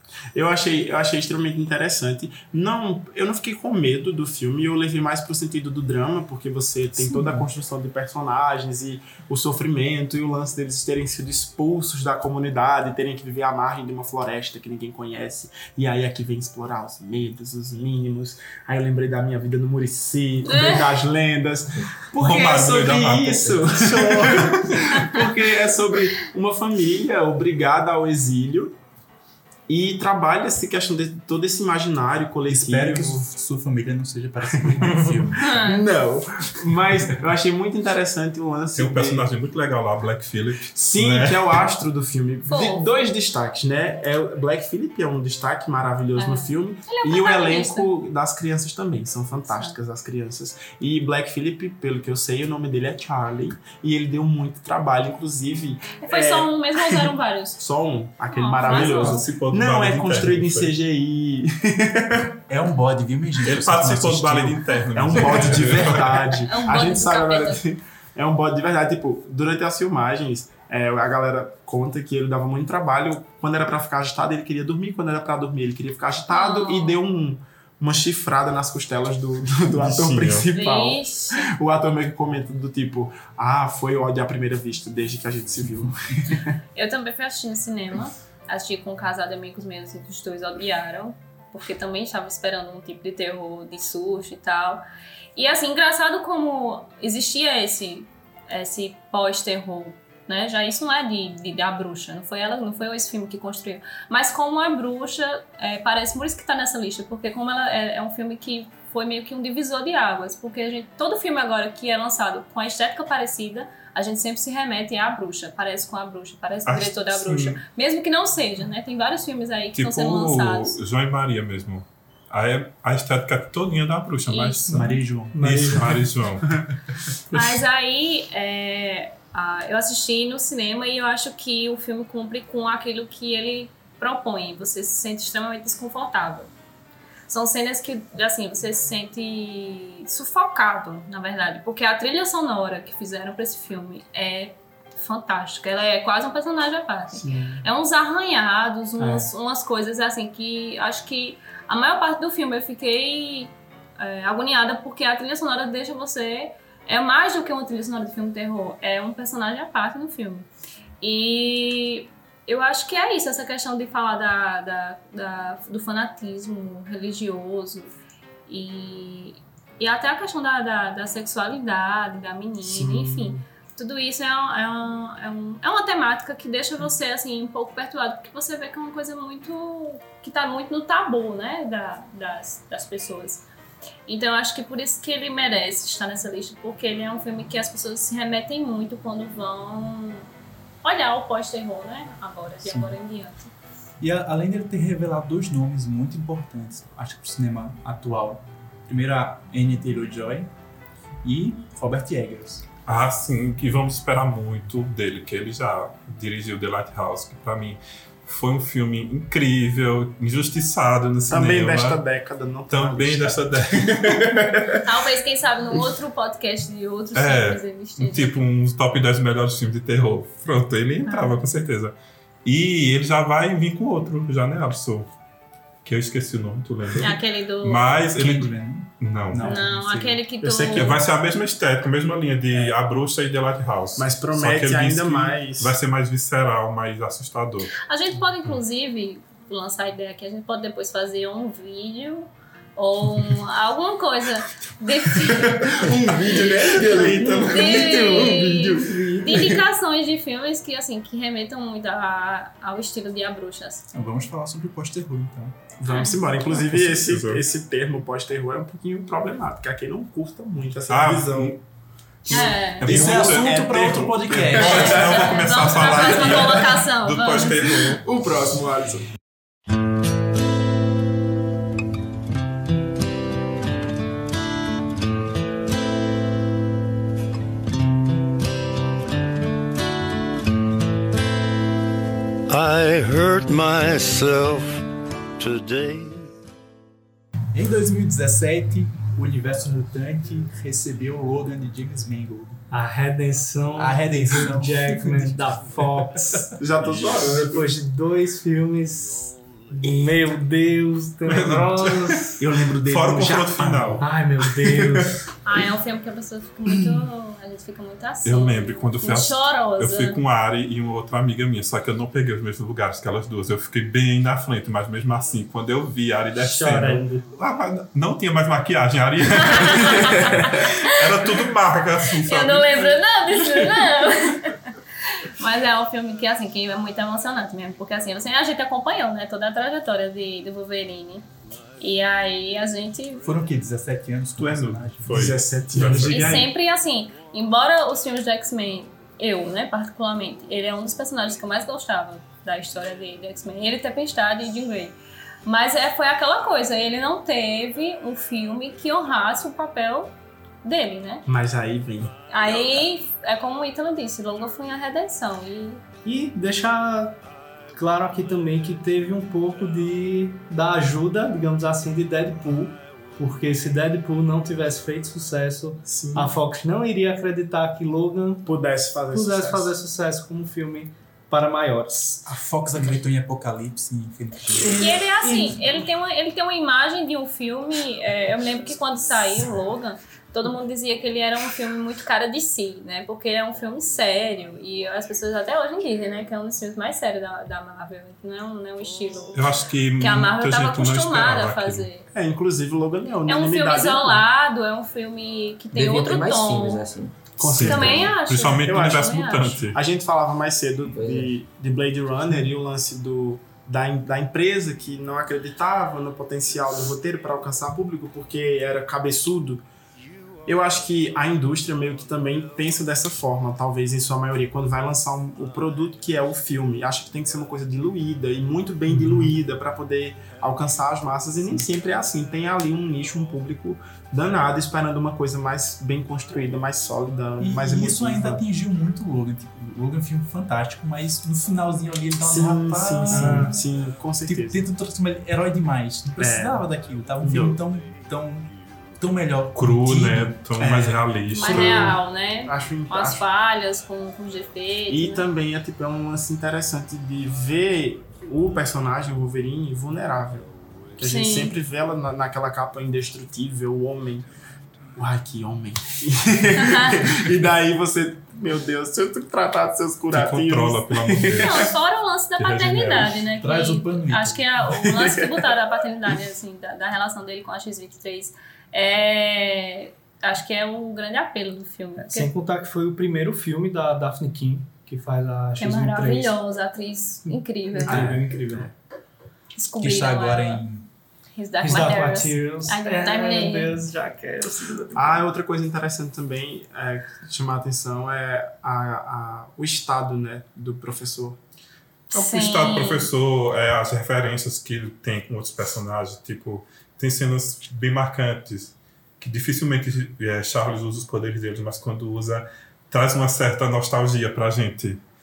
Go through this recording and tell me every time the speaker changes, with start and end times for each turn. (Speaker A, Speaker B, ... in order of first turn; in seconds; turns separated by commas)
Speaker A: 0.3-28.7, Speaker B: 7.0-7.4, Speaker C: 20.4-21.0, Speaker D: 22.2-24.7, Speaker A: 29.7-33.2, Speaker B: 32.5-35.5, Speaker A: 34.5-39.3, Speaker C: 35.4-35.9, Speaker D: 38.7-41.6, Speaker A: 40.7-62.4, Speaker C: 42.5-42.9, Speaker C: 46.2-47.9, Speaker C: 49.5-49.8, Speaker C: 56.0-57.6, Speaker C: 58.3-59.3, Speaker D: 58.6-60.7, Speaker B: 62.5-65.9, Speaker D: 63.4-66.4, Speaker A: 64.9-86.5, Speaker C: 66.2-67.6, Speaker C: 76.3-77.0, Speaker D: 79.7-80.5, Speaker C: 80.5-81.5, Speaker C: 86.7-94.8, Speaker C: 95.3-120.8, Speaker D: 116.7-117.6, Speaker D: 119.8-126.5, Speaker C: 124.3-124.6, Speaker E: 124.7-126.1, Speaker B: 124.7-125.7, Speaker C: 127.3-136.5, Speaker C: 137.3-160.5, Speaker A: 147.1-147.7, Speaker E: 149.0-149.3, Speaker C: 161.0-167.9, Speaker C: 168.5-183.4, Speaker A: 172.6-173.4, Speaker C: 184.1-190.3, Speaker C: 190.8-193.5, Speaker B: 192.6-193.0, Speaker B: 194.0-200.5, Speaker B: 201.2-202.6, Speaker D: 202.8-212.0, Speaker A: 211.3-214.8, Speaker D: 212.7-214.6, Speaker C: 214.8-218.4, Speaker D: 217.1-225.1, Speaker C: 221.1-221.4, Speaker D: 225.8-229.6, Speaker C: 227.0-228.0, Speaker B: 228.1-230.2, Speaker C: 229.4-231.0, Speaker A: 230.4-231.0, Speaker D: 230.6-237.8, Speaker A: 234.0-235.8, Speaker C: 237.8-245.9, Speaker A: 245.3-249.6, Speaker D: 246.9-247.7, Speaker E: 247.1-249.2, Speaker C: 247.4-253.9, Speaker B: 253.9-255.6, Speaker A: 255.8-261.6, Speaker C: 255.9-256.2, Speaker D: 256.5-257.4, Speaker D: 260.9-261.6, Speaker D: 262.2-268.0, Speaker A: 262.3-265.4, Speaker C: 262.3-263.0, Speaker B: 262.8-265.2, Speaker C: 264.6-267.6, Speaker A: 267.9-269.0, Speaker F: 282.5-284.8, Speaker F: 285.4-286.3, Speaker B: 287.5-292.6, Speaker E: 292.7-296.5, Speaker B: 293.7-295.4, Speaker A: 296.6-297.6, Speaker E: 297.1-302.4, Speaker D: 301.3-302.2, Speaker A: 302.4-304.0, Speaker D: 302.8-304.4, Speaker E: 304.0-305.1, Speaker C: 305.4-310.2, Speaker D: 308.2-323.0, Speaker E: 316.4-317.2, Speaker C: 319.4-321.2, Speaker C: 322.2-331.3, Speaker C: 331.8-333.2, Speaker B: 333.2-335.3, Speaker D: 334.4-336.4, Speaker A: 335.1-336.5, Speaker C: 336.0-351.2, Speaker A: 351.3-352.1, Speaker C: 352.3-355.8, Speaker E: 356.0-357.2, Speaker E: 357.7-368.4, Speaker A: 365.9-366.4, Speaker A: 368.4-369.8, Speaker E: 369.1-372.2, Speaker B: 372.2-374.9, Speaker E: 374.6-375.7, Speaker C: 374.7-392.1, Speaker D: 389.3-391.9, Speaker A: 392.1-394.2, Speaker C: 393.2-396.9, Speaker G: 395.7-398.0, Speaker A: 397.4-409.6, Speaker D: 397.4-399.8, Speaker C: 397.6-399.6, Speaker G: 400.9-401.3, Speaker A: 410.4-428.4, Speaker B: 418.9-419.3, Speaker B: 427.4-433.6, Speaker A: 432.2-434.6, Speaker E: 433.1-433.5, Speaker B: 434.2-440.4, Speaker A: 436.2-436.6, Speaker A: 437.2-437.6, Speaker D: 439.5-442.0, Speaker A: 440.6-443.2, Speaker C: 441.3-445.2, Speaker A: 444.9-454.2, Speaker C: 451.0-451.5, Speaker A: 454.9-461.7, Speaker C: 456.6-457.0, Speaker D: 460.1-461.8, Speaker C: 461.3-472.3, Speaker D: 462.4-463.3, Speaker B: 463.4-464.5, Speaker A: 464.7-465.5, Speaker E: 472.0-476.4, Speaker C: 475.6-478.1, Speaker E: 477.3-478.7, Speaker A: 477.9-478.3, Speaker C: 479.6-480.6, Speaker B: 479.8-480.9, Speaker C: 481.3-483.8, Speaker E: 481.6-485.2, Speaker A: 484.9-491.4, Speaker C: 492.1-493.1, Speaker D: 492.1-505.0